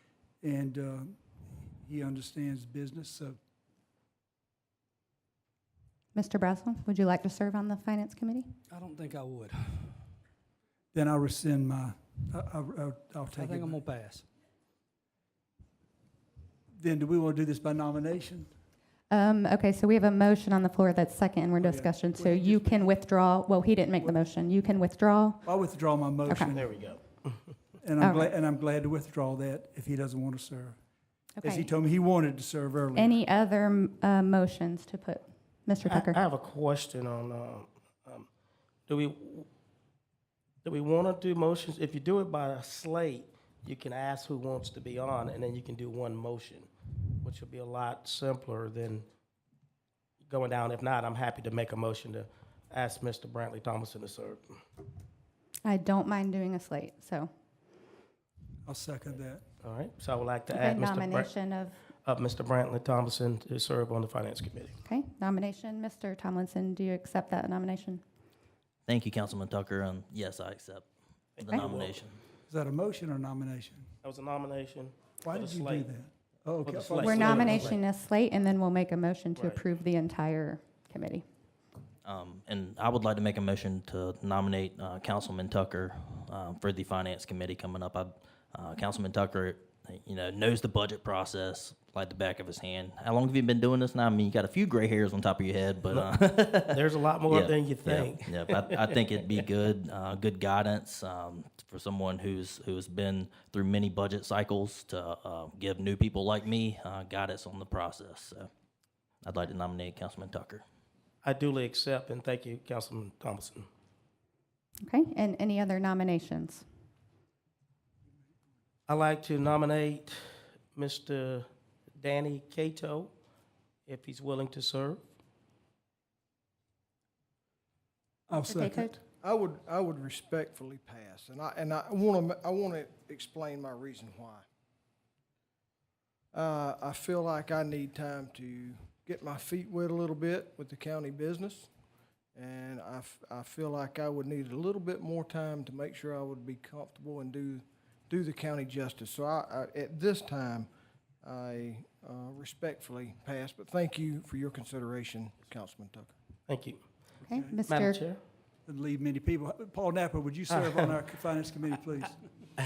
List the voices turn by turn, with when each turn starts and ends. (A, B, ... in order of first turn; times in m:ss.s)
0:00.4-0:01.2 A
0:01.8-0:03.4 A
0:06.1-0:08.5 B
0:08.7-0:10.0 C
0:10.9-0:13.8 A
0:13.3-0:14.3 C
0:16.8-0:18.5 A
0:19.1-0:25.4 B
0:21.6-0:22.9 A
0:25.4-0:26.7 A
0:26.5-0:27.5 D
0:27.8-0:30.8 A
0:28.0-0:28.2 B
0:31.4-0:31.7 B
0:31.4-0:33.2 A
0:33.0-0:36.2 B
0:35.8-0:38.3 D
0:38.9-0:39.5 D
0:40.6-0:46.7 D
0:47.2-0:49.0 D
0:50.2-0:54.6 D
0:55.6-0:57.3 B
0:58.6-0:59.4 A
0:59.6-1:01.3 D
1:00.6-1:01.8 B
1:02.0-1:04.8 D
1:04.9-1:08.0 B
1:08.9-1:12.2 E
1:11.4-1:12.0 D
1:12.5-1:13.9 A
1:14.0-1:15.9 D
1:15.2-1:17.7 A
1:16.6-1:17.8 D
1:17.0-1:21.2 B
1:19.4-1:19.6 D
1:22.0-1:48.5 E
1:35.9-1:39.2 D
1:49.2-1:50.6 E
1:51.2-1:53.7 D
1:54.8-1:56.6 B
1:58.9-2:01.5 D
2:02.0-2:03.1 D
2:03.8-2:05.0 D
2:08.3-2:09.0 A
2:08.6-2:08.9 B
2:09.2-2:14.4 F
2:16.3-2:21.7 F
2:22.3-2:30.7 F
2:31.2-2:36.1 F
2:36.5-2:36.8 D
2:37.3-2:38.0 B
2:37.3-2:37.6 A
2:37.6-2:38.2 D
2:38.7-2:42.2 A